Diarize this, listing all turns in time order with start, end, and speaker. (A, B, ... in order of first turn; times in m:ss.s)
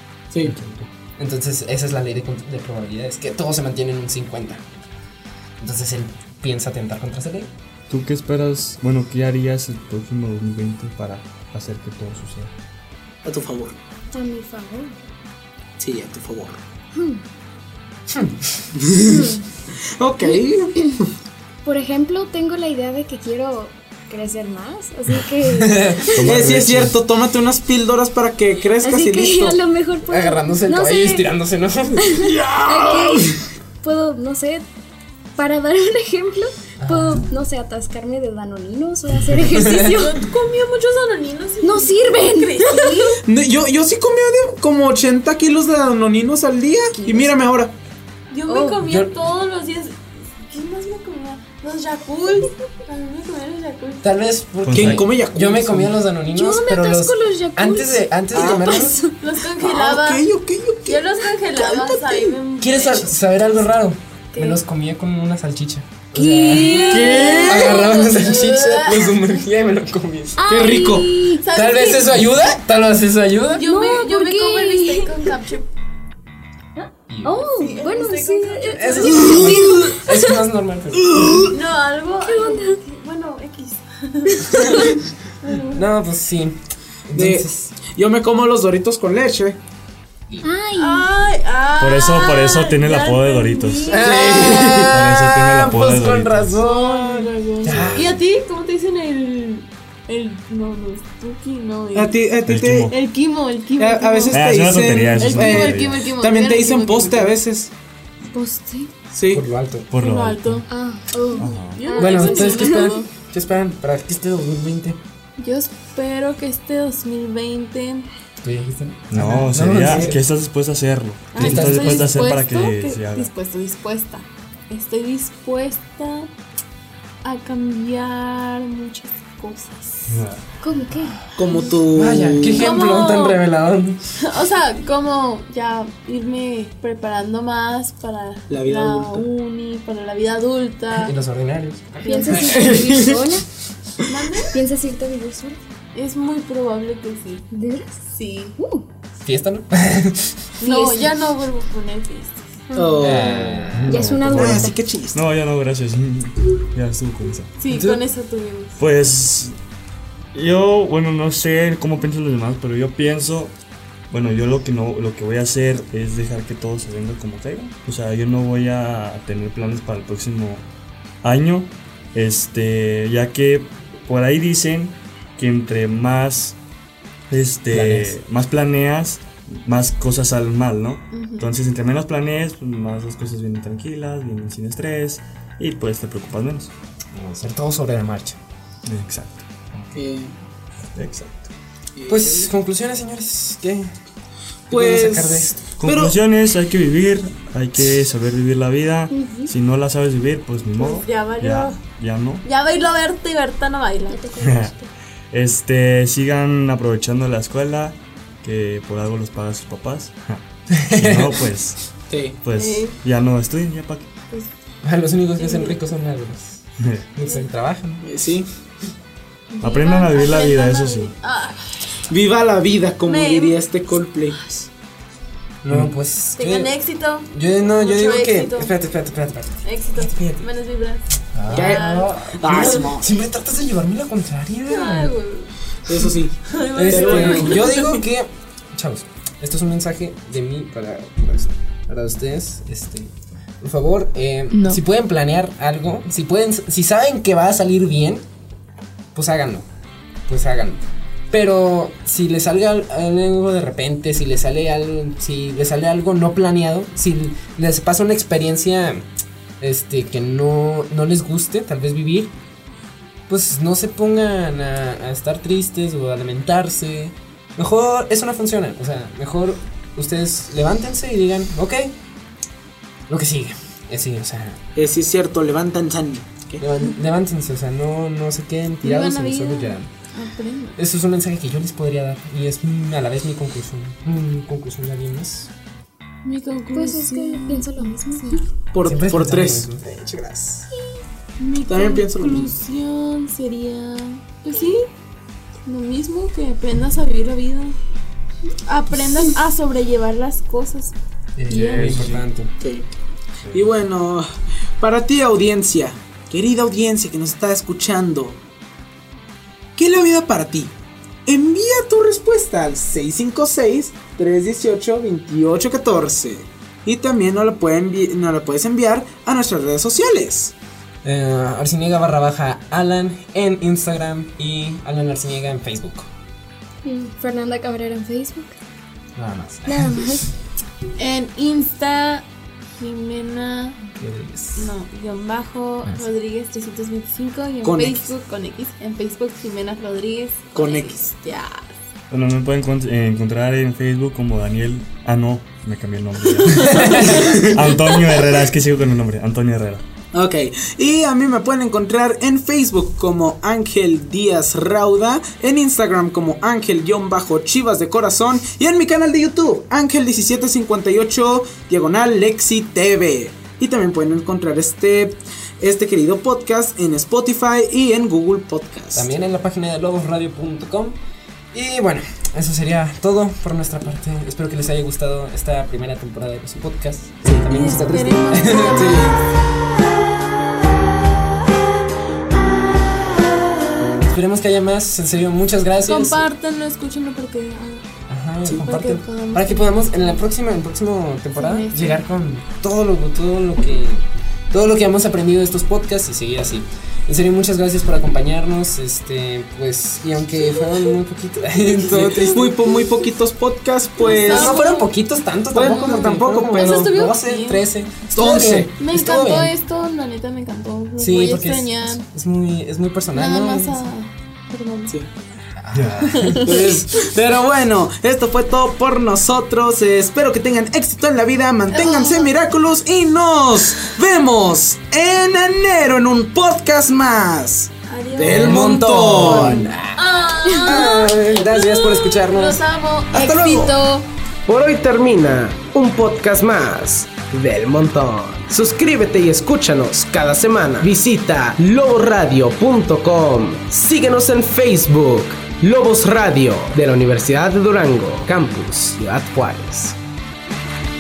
0:00.4-0:00.9 A
0:01.2-0:04.6 B
0:05.6-0:07.5 B
0:07.9-0:12.5 A
0:13.2-0:13.8 C
0:14.1-0:15.0 D
0:15.8-0:16.6 C
0:17.0-0:17.2 D
0:18.1-0:18.7 B
0:18.8-0:19.4 C
0:19.0-0:19.4 D
0:20.0-0:21.1 C
0:20.3-0:21.0 D
0:21.6-0:26.3 D
0:25.4-0:26.9 B
0:26.2-0:26.9 A
0:26.2-0:29.6 C
0:28.8-0:31.3 D
0:30.1-0:32.2 B
0:32.0-0:34.6 D
0:32.2-0:33.4 C
0:35.4-0:40.3 D
0:36.8-0:37.2 B
0:39.5-0:39.8 B
0:39.6-0:43.2 E
0:41.6-0:43.2 D
0:43.2-0:47.7 C
0:47.0-0:47.3 D
0:48.3-0:54.1 E
0:48.5-0:48.8 D
0:48.8-0:49.1 B
0:54.0-0:59.1 B
0:54.6-0:55.0 A
0:54.7-0:56.0 C
0:56.3-0:59.2 D
0:58.3-0:58.8 C
0:58.4-1:00.2 E
0:59.6-1:02.4 C
1:00.9-1:03.3 E
1:02.6-1:10.5 B
1:04.3-1:04.6 E
1:06.2-1:07.9 D
1:06.2-1:09.3 E
1:06.8-1:07.5 C
1:10.4-1:11.4 D
1:10.5-1:11.3 C
1:11.4-1:12.4 E
1:11.5-1:13.7 B
1:13.5-1:15.7 E
1:13.7-1:15.3 D
1:16.8-1:20.4 D
1:17.1-1:17.6 B
1:17.4-1:19.6 E
1:18.7-1:21.5 B
1:19.5-1:19.9 C
1:21.0-1:21.6 C
1:21.5-1:25.9 E
1:22.2-1:22.8 D
1:24.5-1:25.0 B
1:24.6-1:24.8 D
1:25.7-1:27.8 B
1:27.1-1:29.6 C
1:30.4-1:31.1 D
1:30.8-1:34.8 E
1:31.8-1:34.0 A
1:33.9-1:38.2 B
1:34.0-1:34.9 C
1:34.8-1:36.6 A
1:36.6-1:42.2 E
1:37.6-1:38.2 A
1:41.9-1:42.9 C
1:42.5-1:42.9 A
1:42.9-1:47.3 E
1:43.8-1:47.7 C
1:44.3-1:46.0 A
1:48.3-1:48.9 D
1:49.1-1:49.4 C
1:49.3-1:49.9 B
1:49.9-1:50.7 A
1:49.9-1:50.7 E
1:50.7-1:53.0 D
1:51.3-1:53.1 E
1:51.4-1:51.8 A
1:52.0-1:55.0 B
1:55.4-1:58.1 E
1:58.4-2:00.2 B
1:59.1-2:03.3 A
1:59.8-2:00.2 C
2:01.3-2:06.3 E
2:01.4-2:02.1 B
2:07.2-2:10.2 E
2:10.1-2:10.4 A
2:10.6-2:11.2 D
2:11.4-2:12.7 C
2:11.9-2:14.0 B
2:12.6-2:13.4 E
2:14.2-2:21.1 E
2:18.5-2:19.3 C
2:21.0-2:22.2 B
2:22.0-2:23.4 D
2:22.1-2:22.4 E
2:22.3-2:23.2 C
2:24.1-2:24.6 E
2:24.5-2:25.6 D
2:26.0-2:27.5 E
2:27.5-2:28.0 D
2:28.1-2:28.6 E
2:28.6-2:28.8 D
2:29.3-2:30.3 B
2:30.6-2:32.6 E
2:30.6-2:31.1 D
2:32.7-2:34.8 D
2:32.8-2:33.8 C
2:33.0-2:34.0 B
2:33.8-2:37.5 A
2:34.3-2:35.2 C
2:37.6-2:38.8 E
2:37.7-2:38.0 B
2:38.8-2:39.6 A
2:40.3-2:43.5 A
2:44.1-2:50.7 A
2:51.2-2:56.6 A
2:57.3-3:06.7 A
2:57.7-2:58.2 B
3:01.1-3:01.5 E
3:07.1-3:08.4 B
3:08.9-3:09.4 A
3:09.7-3:10.0 B
3:10.0-3:10.3 C
3:10.9-3:11.5 A
3:12.0-3:12.5 C
3:12.1-3:13.9 B
3:14.7-3:15.6 B
3:14.7-3:16.2 C
3:15.8-3:22.4 A
3:19.1-3:19.5 D
3:20.7-3:21.8 E
3:22.4-3:24.2 E
3:24.1-3:24.9 D
3:24.4-3:24.8 A
3:25.3-3:31.8 A
3:30.7-3:31.4 B
3:32.1-3:32.4 C
3:32.4-3:34.1 A
3:32.6-3:33.0 E
3:34.8-3:38.1 B
3:35.4-3:35.8 E
3:38.0-3:38.5 C
3:39.5-3:41.6 E
3:39.6-3:41.1 A
3:42.1-3:44.4 C
3:43.0-3:43.7 E
3:44.4-3:44.7 E
3:45.6-3:46.7 B
3:46.4-3:48.7 E
3:47.3-3:50.5 B
3:49.6-3:52.8 E
3:51.3-3:55.1 B
3:51.5-3:53.1 C
3:54.7-3:55.5 E
3:55.9-3:57.6 C
3:56.5-3:58.0 E
3:56.7-4:08.2 B
4:04.5-4:04.8 E
4:09.1-4:09.7 B
4:10.3-4:19.0 B
4:19.6-4:22.3 B
4:23.3-4:32.0 B
4:33.1-4:34.6 B
4:34.8-4:36.6 C
4:36.6-4:39.9 B
4:38.8-4:40.8 E
4:40.8-4:45.5 B
4:46.2-4:48.4 E
4:46.7-4:48.4 D
4:48.7-4:49.7 C
4:48.8-4:50.7 B
4:51.4-4:54.9 E
4:51.7-4:52.5 C
4:55.7-4:57.8 E
4:58.7-5:00.9 E
5:01.4-5:02.5 B
5:01.5-5:02.1 E
5:01.6-5:02.3 A
5:02.6-5:02.9 C
5:03.5-5:04.3 C
5:04.8-5:08.4 C
5:09.8-5:10.7 C
5:11.3-5:20.5 C
5:21.0-5:26.1 B
5:26.8-5:28.6 D
5:29.2-5:30.1 B
5:29.7-5:30.3 D
5:31.0-5:32.2 E
5:32.8-5:33.8 E
5:33.9-5:34.7 B
5:34.6-5:41.8 E
5:37.6-5:38.1 C
5:40.6-5:41.1 C
5:42.1-5:49.8 A
5:46.3-5:48.5 E
5:47.1-5:47.6 C
5:50.1-6:09.1 C
6:08.9-6:11.0 B
6:11.5-6:19.2 B
6:17.4-6:19.3 E
6:24.0-6:26.3 B
6:25.8-6:27.9 E
6:28.1-6:42.6 B
6:28.5-6:30.2 E
6:31.4-6:32.0 E
6:41.6-6:43.1 E
6:41.9-6:44.6 C
6:44.0-6:44.9 E
6:44.3-6:49.5 B
6:45.5-6:47.0 C
6:45.6-6:47.6 E
6:48.1-6:48.7 C
6:48.5-6:52.1 E
6:51.0-6:53.8 B
6:53.1-6:55.0 E
6:55.6-6:56.5 B
6:55.7-6:56.2 A
6:56.1-6:56.8 E
6:56.4-7:09.7 C
7:01.7-7:02.3 E
7:07.9-7:14.1 E
7:08.2-7:10.0 B
7:10.5-7:10.9 D
7:10.6-7:12.6 B
7:13.1-7:13.8 C
7:14.5-7:30.0 F